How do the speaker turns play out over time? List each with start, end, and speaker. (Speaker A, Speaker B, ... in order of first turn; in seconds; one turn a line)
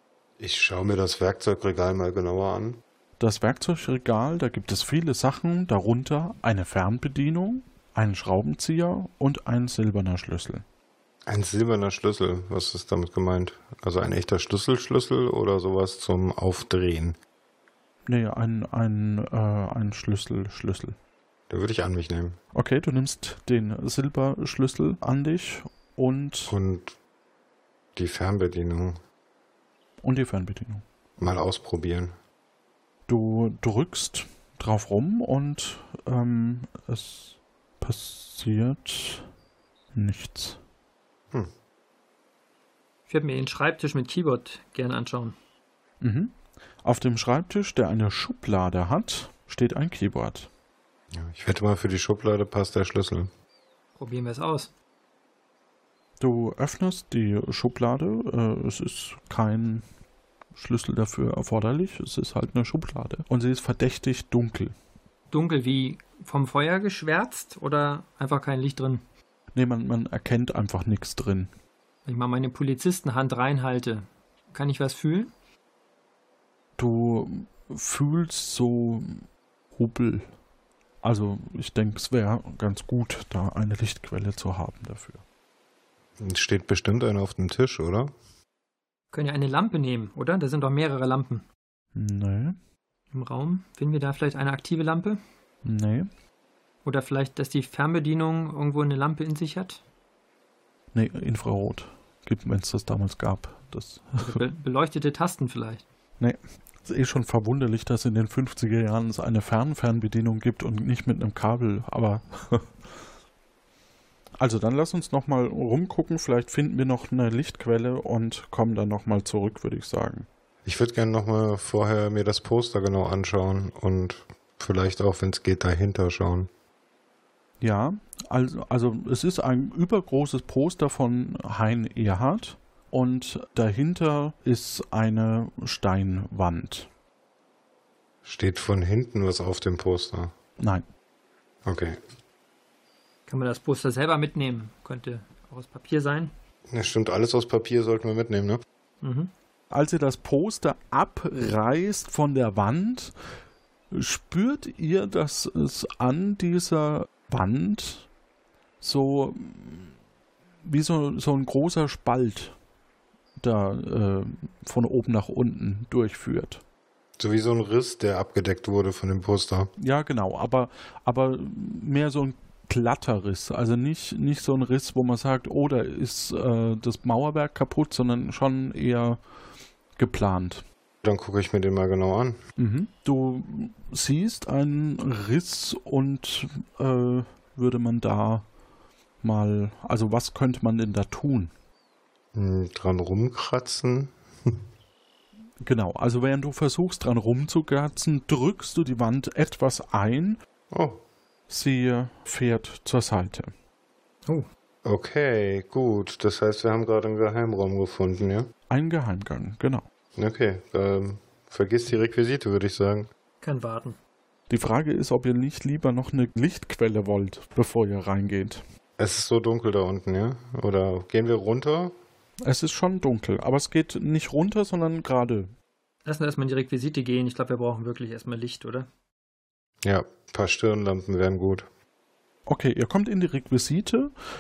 Speaker A: 0.4-2.8
Speaker B: 3.2-10.6
Speaker A: 11.3-17.2
Speaker B: 18.1-21.0
Speaker A: 21.5-22.4
Speaker B: 22.5-26.6
Speaker A: 26.5-26.9
Speaker A: 28.0-29.0
Speaker B: 30.0-30.8
Speaker A: 31.2-32.1
Speaker B: 33.1-39.3
Speaker B: 39.9-40.6
Speaker C: 43.1-45.4
Speaker B: 46.0-50.5
Speaker A: 51.1-53.3
Speaker C: 54.0-54.7
Speaker B: 56.2-59.9
Speaker B: 60.6-64.8
Speaker C: 65.3-69.0
Speaker B: 69.5-71.5
Speaker C: 72.0-75.3
Speaker B: 76.8-80.3
Speaker B: 81.0-85.2
Speaker A: 86.2-88.1
Speaker C: 89.1-91.5
Speaker B: 92.0-92.6
Speaker C: 93.1-95.2
Speaker B: 95.6-96.1
Speaker C: 96.8-99.8
Speaker B: 100.9-104.4
Speaker C: 104.2-105.8
Speaker B: 106.2-112.8
Speaker B: 114.4-120.3
Speaker A: 120.7-126.5
Speaker B: 127.6-136.9
Speaker A: 138.2-140.3
Speaker B: 140.6-140.8
Speaker A: 141.7-142.0
Speaker C: 143.3-146.3
Speaker A: 146.7-148.6
Speaker C: 149.0-149.3
Speaker B: 149.7-153.2
Speaker B: 153.9-158.1
Speaker B: 158.8-159.9
Speaker B: 160.6-162.5
Speaker B: 163.4-166.6
Speaker A: 167.2-169.7
Speaker B: 169.8-179.2
Speaker B: 180.0-180.7
Speaker A: 181.0-182.4
Speaker B: 182.6-188.4
Speaker B: 189.2-191.5
Speaker A: 192.3-194.6
Speaker B: 195.6-200.4
Speaker A: 200.7-201.0
Speaker B: 201.5-203.5
Speaker A: 204.8-208.5
Speaker B: 208.7-209.9
Speaker A: 210.2-213.1
Speaker C: 213.4-214.0
Speaker B: 214.5-218.6
Speaker A: 219.0-221.9
Speaker B: 222.4-225.5
Speaker C: 226.1-228.9
Speaker A: 229.8-231.7
Speaker B: 232.5-234.1